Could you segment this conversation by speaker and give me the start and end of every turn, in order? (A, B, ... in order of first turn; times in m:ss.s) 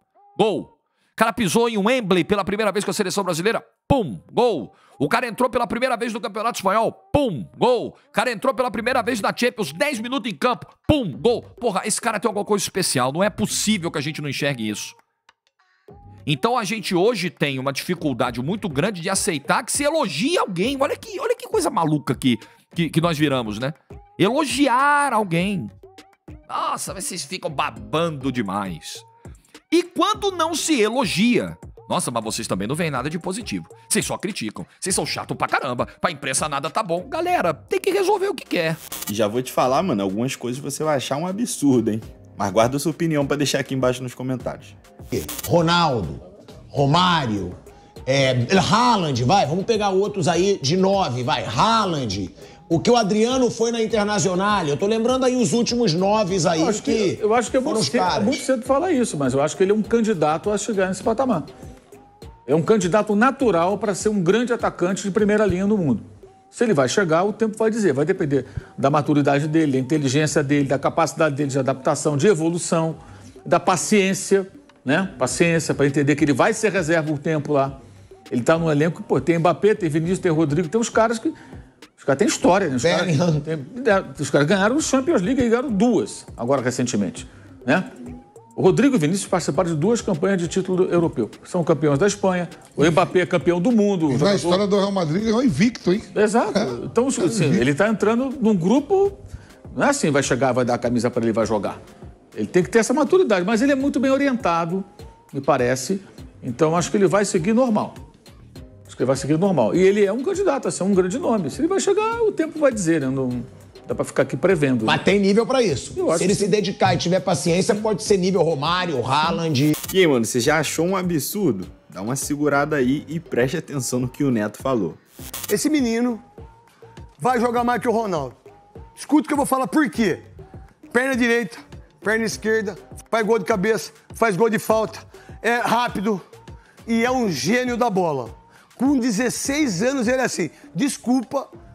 0:00.4-0:15.0 A
0:16.3-0:25.7 A
0:26.5-0:29.1 A
0:29.7-0:38.8 A
0:39.1-0:44.8 B
0:45.1-0:47.6 C
0:48.1-0:58.4 C
0:56.5-1:01.5 D
1:02.5-1:17.8 D
1:18.3-1:21.3 D
1:22.0-1:27.9 D
1:22.8-1:23.5 C
1:28.6-1:34.7 D
1:34.1-1:36.1 E
1:36.1-1:39.2 D
1:39.7-1:41.8 D
1:42.3-1:48.0 D
1:48.9-1:55.0 D
1:54.8-1:59.7 C
1:56.0-1:56.5 D
1:59.9-2:05.0 B
2:05.5-2:06.2 F
2:07.2-2:08.4 F
2:09.0-2:10.2 F
2:10.9-2:16.2 F
2:16.9-2:21.5 F